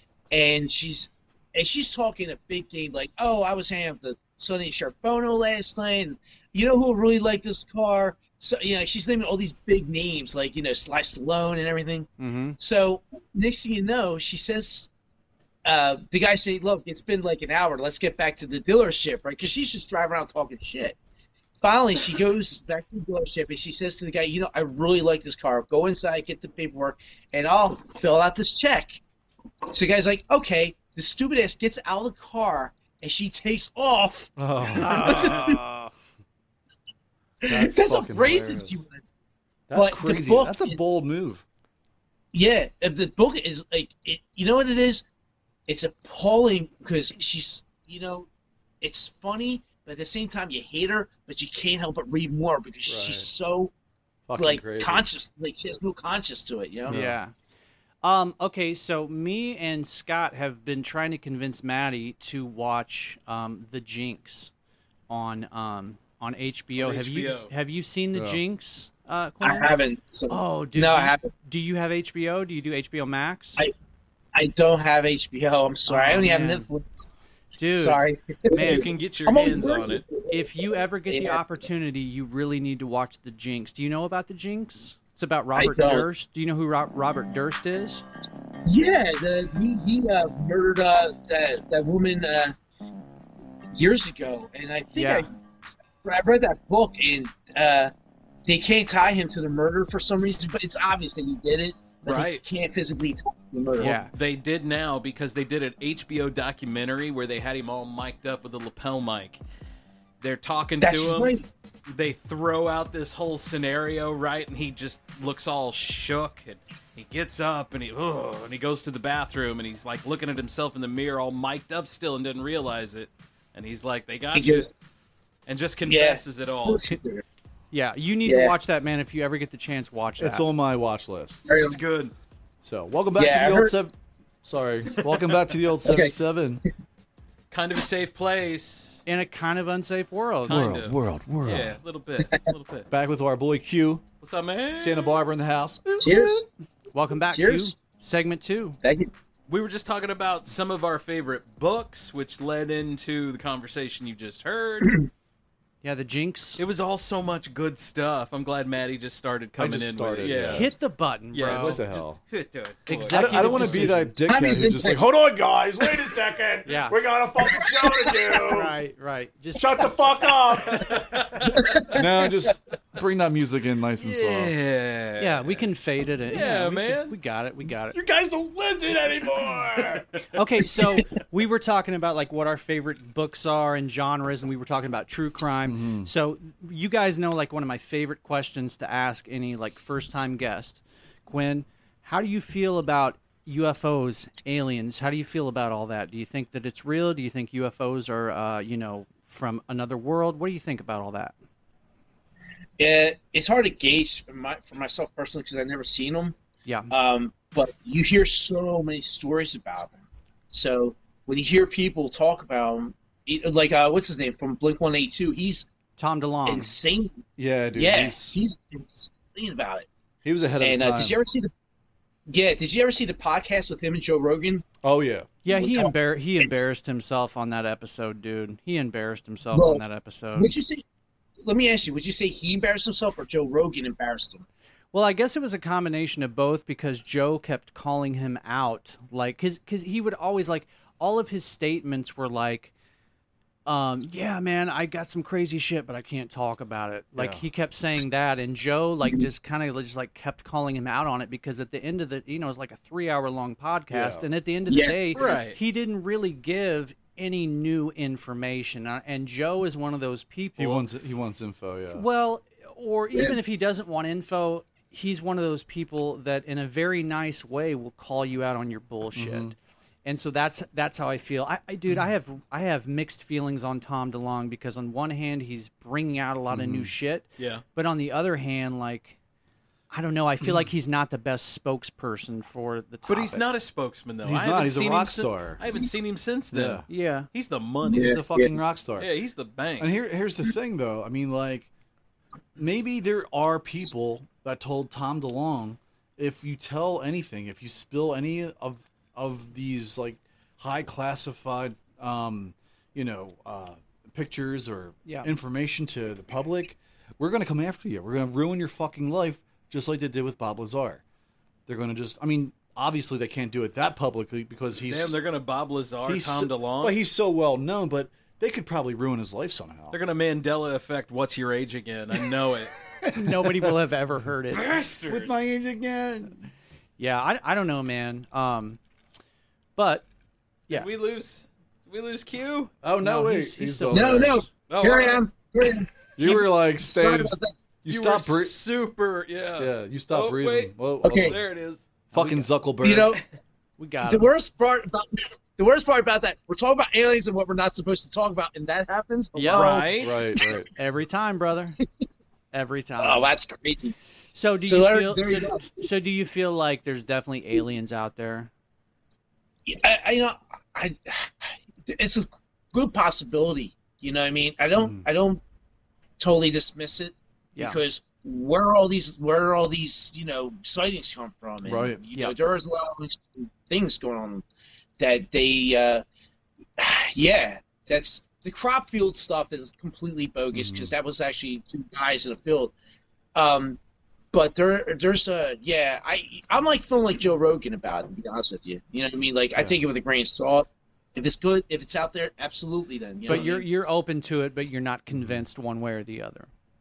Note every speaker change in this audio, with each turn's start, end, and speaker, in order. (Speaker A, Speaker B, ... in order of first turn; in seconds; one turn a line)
Speaker A: 0.3-14.9
Speaker B: 12.2-12.6
Speaker A: 15.6-20.9
Speaker A: 21.6-29.0
Speaker A: 29.7-35.6
Speaker C: 34.4-35.6
Speaker B: 34.8-35.6
Speaker A: 37.4-39.0
Speaker C: 37.4-38.8
Speaker C: 39.7-41.4
Speaker A: 39.7-40.8
Speaker A: 42.3-45.0
Speaker A: 45.7-48.3
Speaker A: 48.8-53.7
Speaker C: 52.9-53.3
Speaker C: 54.3-55.1
Speaker A: 54.4-57.0
Speaker B: 56.9-57.3
Speaker C: 56.9-57.2
Speaker B: 58.0-64.5
Speaker B: 65.1-69.7
Speaker D: 66.8-67.5
Speaker C: 68.1-68.4
Speaker A: 69.4-71.3
Speaker B: 70.3-73.6
Speaker A: 74.3-77.1
Speaker B: 75.9-76.7
Speaker B: 77.6-78.9
Speaker A: 77.7-81.4
Speaker D: 78.5-80.0
Speaker B: 80.3-88.0
Speaker A: 85.5-86.1
Speaker A: 88.7-92.5
Speaker A: 93.7-95.3
Speaker B: 95.0-95.3
Speaker A: 96.0-97.9
Speaker A: 98.5-104.0
Speaker D: 102.0-102.4
Speaker B: 103.8-104.1
Speaker D: 103.8-109.4
Speaker D: 110.2-111.3
Speaker A: 110.8-111.5
Speaker D: 111.9-124.7
Speaker A: 124.3-124.7
Speaker D: 125.5-126.9
Speaker A: 125.9-127.2
Speaker B: 127.7-130.4
Speaker A: 128.3-128.5
Speaker C: 130.2-131.4
Speaker A: 131.5-131.8
Speaker D: 131.5-132.1
Speaker C: 132.6-136.6
Speaker A: 133.2-133.7
Speaker A: 135.8-136.1
Speaker D: 137.5-139.0
Speaker B: 139.1-140.6
Speaker C: 140.4-141.8
Speaker D: 140.5-142.9
Speaker C: 142.9-144.0
Speaker D: 144.2-145.2
Speaker C: 144.7-146.4
Speaker A: 146.0-146.4
Speaker B: 146.9-148.8
Speaker A: 147.3-147.7
Speaker A: 148.8-149.1
Speaker D: 149.5-155.1
Speaker B: 155.8-156.6
Speaker D: 156.6-160.7
Speaker C: 159.6-160.7
Speaker B: 160.5-161.8
Speaker D: 161.3-163.9
Speaker C: 161.4-162.2
Speaker B: 162.9-164.1
Speaker C: 162.9-168.8
Speaker A: 164.3-165.0
Speaker B: 166.7-167.0
Speaker B: 168.5-169.9
Speaker C: 169.6-174.5
Speaker D: 170.7-171.6
Speaker A: 171.6-172.0
Speaker D: 174.0-175.7
Speaker B: 175.2-178.0
Speaker D: 176.3-177.1
Speaker C: 177.9-180.2
Speaker B: 180.3-201.3
Speaker C: 185.7-186.1
Speaker A: 202.8-206.4
Speaker B: 206.7-206.9
Speaker A: 206.9-210.0
Speaker A: 210.5-215.7
Speaker B: 216.0-216.7
Speaker A: 216.4-217.2
Speaker C: 217.4-218.4
Speaker A: 217.7-219.9
Speaker C: 220.2-221.2
Speaker A: 220.6-221.5
Speaker A: 222.3-224.7
Speaker C: 224.8-225.3
Speaker B: 225.4-230.5
Speaker A: 225.5-226.6
Speaker A: 229.5-229.8
Speaker A: 230.4-230.8
Speaker A: 231.4-234.4
Speaker B: 234.9-242.7
Speaker B: 243.7-260.9
Speaker C: 247.2-247.4
Speaker C: 253.9-254.3
Speaker A: 254.7-255.3
Speaker D: 255.1-255.6
Speaker C: 260.6-262.1
Speaker B: 261.9-279.2
Speaker C: 269.1-269.5
Speaker C: 276.5-276.9
Speaker D: 277.4-277.6
Speaker B: 279.9-283.4
Speaker C: 280.4-280.7
Speaker D: 283.1-288.1
Speaker C: 284.2-285.6
Speaker C: 286.5-286.8
Speaker B: 286.9-287.3
Speaker A: 287.8-288.6
Speaker C: 287.9-289.1
Speaker D: 289.0-289.9
Speaker C: 289.8-291.7
Speaker C: 292.6-311.0
Speaker B: 305.1-305.3
Speaker C: 311.7-315.2
Speaker D: 314.8-317.0
Speaker C: 316.1-320.0
Speaker D: 319.9-322.7
Speaker B: 323.1-324.6
Speaker C: 323.1-323.8
Speaker D: 324.5-325.4
Speaker C: 325.1-326.5
Speaker B: 327.0-328.8
Speaker B: 329.8-330.1
Speaker D: 330.7-332.7
Speaker C: 332.8-334.4
Speaker B: 333.0-334.5
Speaker A: 333.9-337.6
Speaker D: 334.7-335.2
Speaker C: 336.2-338.6
Speaker D: 337.9-341.8
Speaker C: 339.6-341.4
Speaker A: 341.0-341.4
Speaker C: 342.1-343.2
Speaker B: 342.1-342.5
Speaker A: 342.8-343.2
Speaker B: 343.8-344.3
Speaker A: 344.0-350.5
Speaker B: 349.3-349.8
Speaker D: 349.5-350.3
Speaker C: 350.0-350.7
Speaker B: 350.8-351.8
Speaker B: 352.5-353.3
Speaker A: 353.0-353.9
Speaker B: 354.3-358.5
Speaker A: 354.6-355.7
Speaker A: 359.7-365.4
Speaker C: 364.8-365.1
Speaker A: 366.2-374.4
Speaker C: 371.6-372.0
Speaker A: 375.0-376.0
Speaker A: 376.8-382.7
Speaker C: 380.5-380.9
Speaker A: 383.3-383.8
Speaker A: 384.3-393.7
Speaker B: 393.3-396.5
Speaker C: 395.1-395.4